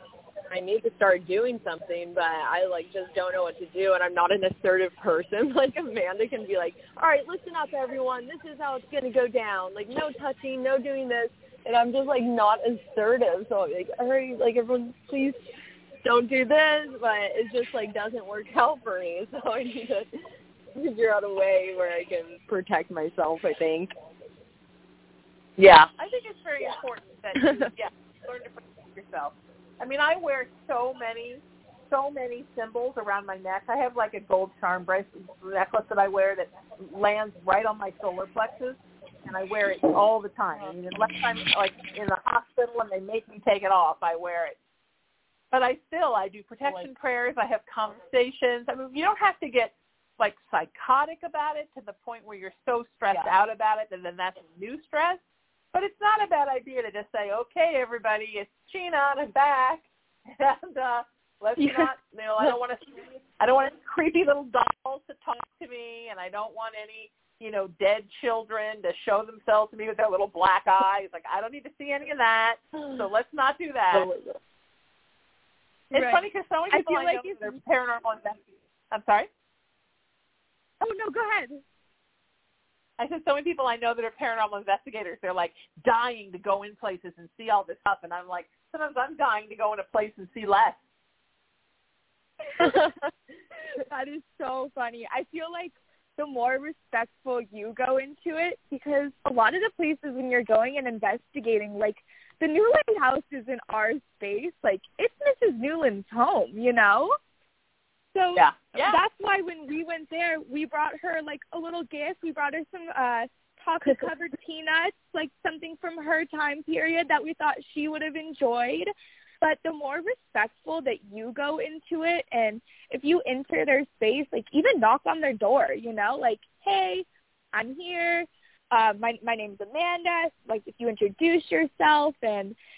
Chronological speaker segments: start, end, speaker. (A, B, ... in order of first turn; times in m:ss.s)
0:00.5-0:15.4 A
0:16.0-0:20.1 A
0:20.8-0:23.9 A
0:25.6-0:44.6 B
0:45.5-0:55.2 B
0:55.7-1:14.1 B
1:01.6-1:02.6 A
1:13.9-1:14.4 A
1:15.9-1:19.3 B
1:15.9-1:17.5 C
1:20.8-1:21.6 C
1:23.0-1:30.8 B
1:32.6-1:32.8 C
1:33.8-1:47.2 C
1:48.1-2:12.6 C
1:48.4-1:49.0 B